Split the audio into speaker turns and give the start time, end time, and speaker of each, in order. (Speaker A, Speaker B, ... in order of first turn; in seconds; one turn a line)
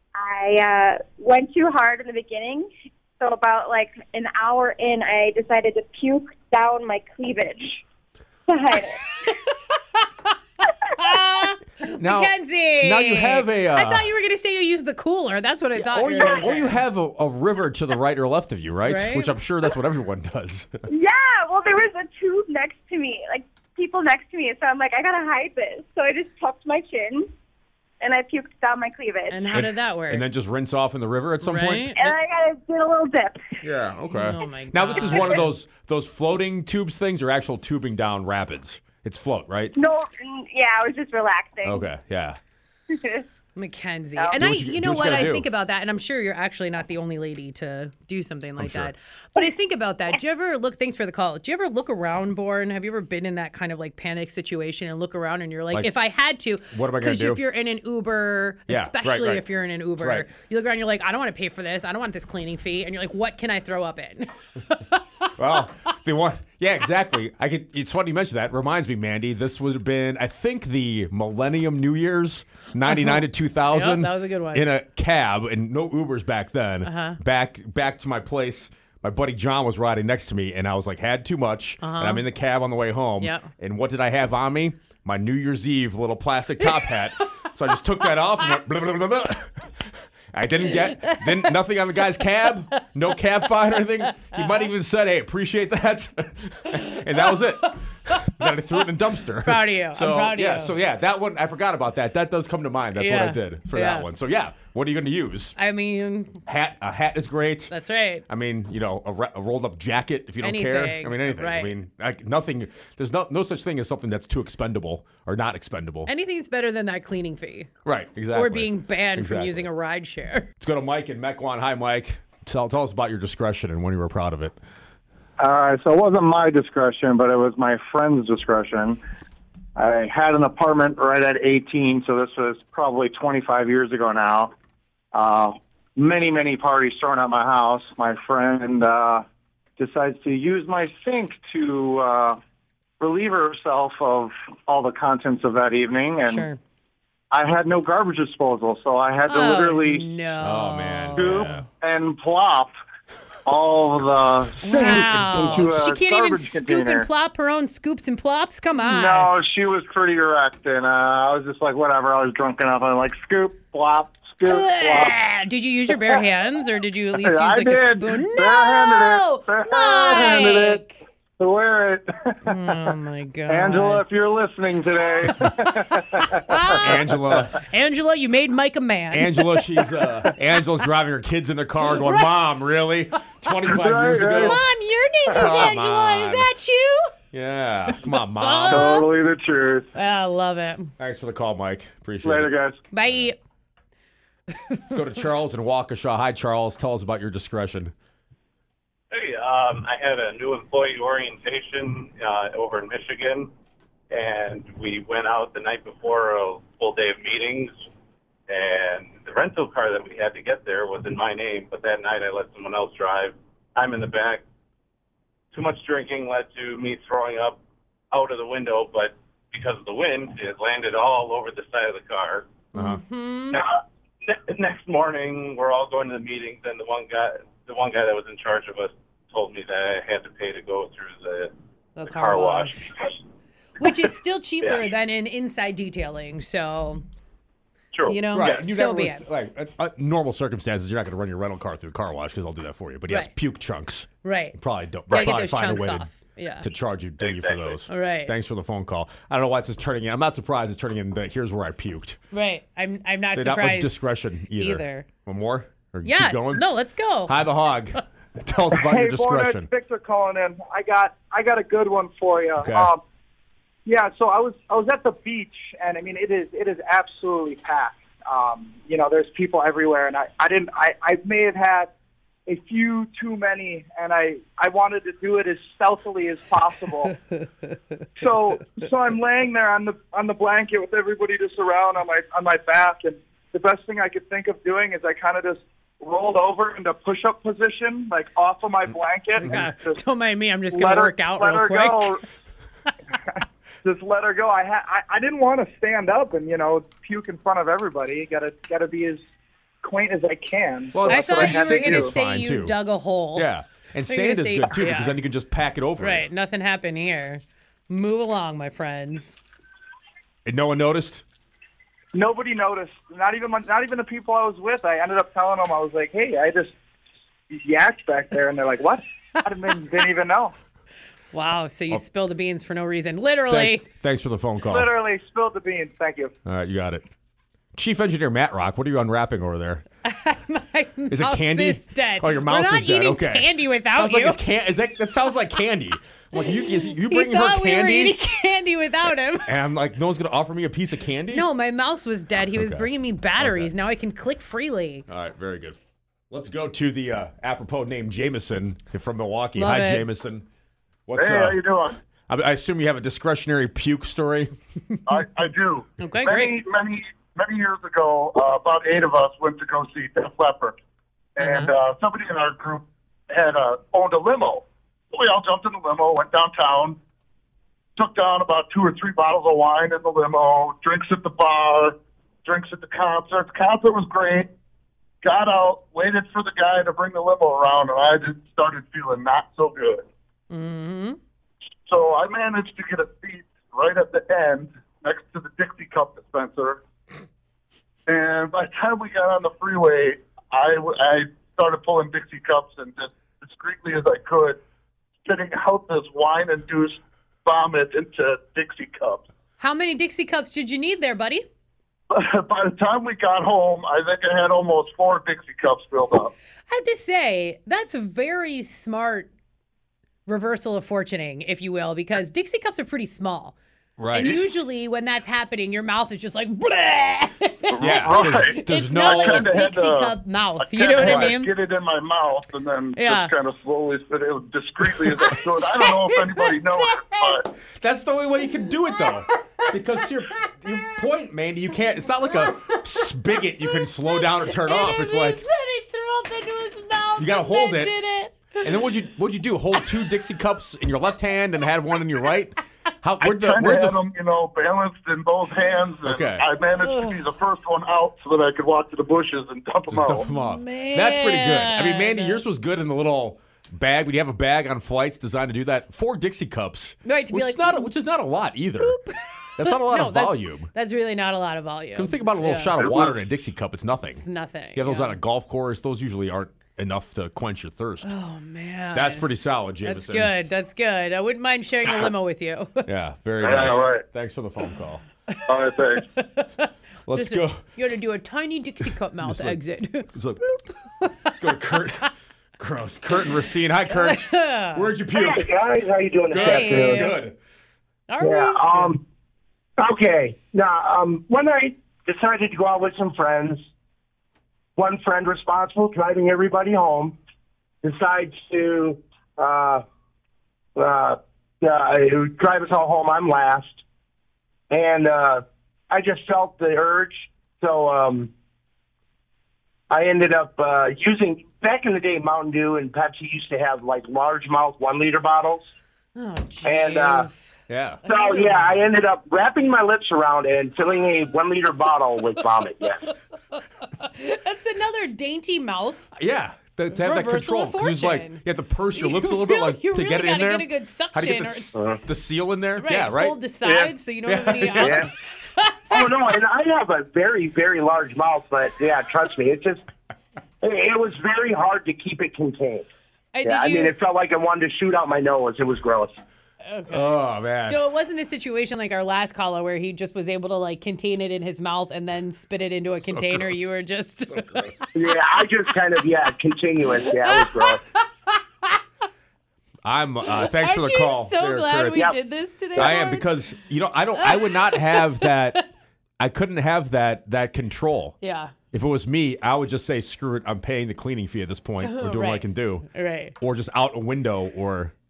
Speaker A: 0.2-2.7
Speaker A: 3.2-7.8
Speaker A: 8.5-9.0
Speaker B: 8.9-10.1
Speaker B: 10.6-16.8
Speaker C: 12.0-14.1
Speaker C: 15.8-20.7
Speaker A: 16.2-16.5
Speaker B: 18.9-19.3
Speaker A: 20.9-27.3
Speaker A: 28.0-29.5
Speaker B: 29.3-30.3
Speaker C: 29.5-32.1
Speaker B: 31.4-32.0
Speaker A: 32.0-33.5
Speaker C: 33.6-39.7
Speaker B: 34.1-35.5
Speaker A: 35.0-35.3
Speaker A: 39.7-41.9
Speaker C: 41.6-42.4
Speaker A: 42.9-43.2
Speaker B: 43.5-65.3
Speaker C: 44.4-45.5
Speaker C: 48.6-48.9
Speaker C: 56.7-57.4
Speaker C: 58.7-59.5
Speaker C: 60.0-60.3
Speaker C: 65.4-105.5
Speaker B: 72.9-74.7
Speaker B: 76.8-77.2
Speaker B: 81.8-82.2
Speaker B: 83.2-83.5
Speaker B: 86.8-87.5
Speaker B: 88.0-88.4
Speaker B: 90.7-91.5
Speaker B: 94.0-94.3
Speaker B: 97.2-98.5
Speaker B: 99.4-100.7
Speaker B: 102.9-104.1
Speaker B: 105.5-106.4
Speaker C: 106.5-107.7
Speaker B: 107.7-108.3
Speaker C: 108.3-116.1
Speaker B: 110.4-111.8
Speaker B: 116.1-117.7
Speaker C: 117.8-119.7
Speaker B: 118.3-120.5
Speaker C: 120.6-124.6
Speaker D: 125.4-129.0
Speaker D: 129.8-134.5
Speaker D: 135.1-139.2
Speaker D: 139.8-142.4
Speaker D: 143.0-146.5
Speaker B: 146.2-146.6
Speaker D: 147.3-150.1
Speaker B: 149.2-151.4
Speaker C: 150.4-151.7
Speaker D: 151.2-152.7
Speaker D: 153.4-157.1
Speaker C: 154.6-155.8
Speaker B: 154.6-159.3
Speaker D: 158.8-165.2
Speaker B: 164.4-170.9
Speaker D: 165.9-166.2
Speaker D: 167.2-170.8
Speaker D: 171.4-172.9
Speaker B: 172.4-174.0
Speaker D: 173.5-176.9
Speaker B: 175.2-180.3
Speaker C: 176.8-177.6
Speaker C: 179.1-184.6
Speaker B: 181.9-182.4
Speaker D: 183.7-184.6
Speaker B: 184.4-187.1
Speaker C: 185.3-186.5
Speaker C: 187.3-189.0
Speaker B: 188.0-189.2
Speaker D: 188.7-189.9
Speaker B: 189.9-190.9
Speaker C: 191.0-192.5
Speaker D: 192.2-192.8
Speaker B: 192.9-193.3
Speaker C: 193.0-193.3
Speaker B: 194.5-195.0
Speaker C: 194.9-197.9
Speaker E: 199.1-203.5
Speaker E: 204.1-207.8
Speaker E: 208.5-214.4
Speaker E: 215.5-217.6
Speaker E: 218.1-222.4
Speaker C: 222.8-223.0
Speaker B: 222.8-223.6
Speaker E: 223.5-231.5
Speaker B: 232.0-232.9
Speaker E: 232.0-233.1
Speaker B: 233.8-237.0
Speaker E: 234.6-234.8
Speaker E: 237.9-238.6
Speaker B: 238.1-239.2
Speaker C: 238.3-252.2
Speaker B: 244.2-246.6
Speaker E: 247.2-247.8
Speaker B: 247.9-248.3
Speaker B: 252.3-255.1
Speaker C: 253.3-256.6
Speaker B: 256.0-257.4
Speaker C: 257.2-259.7
Speaker F: 258.7-263.0
Speaker C: 262.6-262.9
Speaker F: 263.9-271.9
Speaker F: 272.5-277.1
Speaker F: 278.2-290.0
Speaker B: 289.4-292.2
Speaker F: 290.7-292.2
Speaker F: 293.8-299.2
Speaker F: 299.8-302.1
Speaker C: 300.9-302.8
Speaker B: 301.0-303.5
Speaker C: 303.3-306.2
Speaker B: 304.1-305.2
Speaker B: 306.0-309.4
Speaker C: 310.4-311.2
Speaker F: 312.1-316.7
Speaker F: 317.5-320.6
Speaker B: 321.3-323.9
Speaker C: 323.5-324.9
Speaker F: 324.6-326.3
Speaker C: 326.4-327.1
Speaker C: 327.8-329.8
Speaker B: 330.1-334.4
Speaker C: 331.1-338.1
Speaker B: 336.3-339.6
Speaker C: 339.4-341.5
Speaker B: 341.3-345.1
Speaker C: 342.5-343.7
Speaker C: 345.1-345.8
Speaker C: 346.3-350.5
Speaker B: 349.6-350.1
Speaker C: 351.1-351.6
Speaker G: 351.1-352.0
Speaker C: 352.3-354.5
Speaker G: 355.1-360.8
Speaker B: 356.0-356.6
Speaker G: 361.4-367.0
Speaker B: 361.4-361.7
Speaker G: 368.0-374.5
Speaker G: 375.2-380.1
Speaker B: 380.5-381.2
Speaker G: 381.9-386.8
Speaker G: 388.1-394.6
Speaker G: 395.2-399.3
Speaker B: 399.6-401.4
Speaker G: 402.1-406.3
Speaker B: 406.7-409.3
Speaker B: 410.3-413.6
Speaker C: 414.0-414.4
Speaker G: 414.1-414.4
Speaker B: 414.1-421.5
Speaker G: 417.7-427.5
Speaker C: 417.8-419.5
Speaker C: 421.0-421.4
Speaker B: 422.9-423.3
Speaker B: 424.8-427.4
Speaker C: 427.6-435.4
Speaker B: 428.6-430.0
Speaker B: 430.7-431.1
Speaker B: 432.0-432.8
Speaker B: 433.6-438.9
Speaker C: 437.2-438.0
Speaker C: 438.6-444.0
Speaker B: 439.7-440.1
Speaker G: 443.2-450.3
Speaker C: 446.1-446.4
Speaker B: 446.7-447.3
Speaker C: 449.9-458.9
Speaker B: 450.3-452.4
Speaker B: 457.1-457.9
Speaker B: 458.8-462.8
Speaker C: 459.6-460.7
Speaker C: 461.9-468.1
Speaker B: 464.1-465.2
Speaker B: 468.0-469.3
Speaker C: 468.9-470.3
Speaker B: 469.8-472.9
Speaker C: 472.9-475.0
Speaker G: 473.4-474.0
Speaker G: 475.4-476.1
Speaker B: 476.1-480.1
Speaker C: 477.1-477.6
Speaker C: 479.2-479.6
Speaker C: 480.1-480.4
Speaker B: 480.6-482.1
Speaker C: 481.4-485.5
Speaker B: 483.9-484.9
Speaker H: 485.1-487.1
Speaker C: 486.3-487.4
Speaker B: 486.4-487.1
Speaker B: 488.1-488.9
Speaker H: 488.2-489.0
Speaker H: 489.8-493.6
Speaker H: 494.8-497.1
Speaker H: 497.8-499.8
Speaker H: 500.8-503.8
Speaker H: 504.7-508.3
Speaker H: 509.9-515.7
Speaker B: 516.1-518.8
Speaker H: 516.6-517.3
Speaker C: 517.7-518.0
Speaker H: 518.0-523.0
Speaker B: 523.1-526.1
Speaker C: 526.1-535.1
Speaker B: 526.9-531.8
Speaker B: 532.8-536.0
Speaker H: 534.8-535.1
Speaker H: 535.9-539.8
Speaker H: 540.6-542.9
Speaker B: 543.3-544.0
Speaker H: 543.4-546.2
Speaker B: 546.7-554.9
Speaker C: 546.9-547.8
Speaker C: 553.0-553.7
Speaker C: 554.3-554.9
Speaker H: 554.9-557.8
Speaker B: 557.1-558.8
Speaker C: 559.9-562.1
Speaker B: 560.4-563.4
Speaker C: 562.8-565.6
Speaker B: 564.1-565.6
Speaker C: 566.2-568.1
Speaker B: 568.2-568.5
Speaker C: 568.7-572.9
Speaker B: 571.8-573.3
Speaker C: 573.4-574.9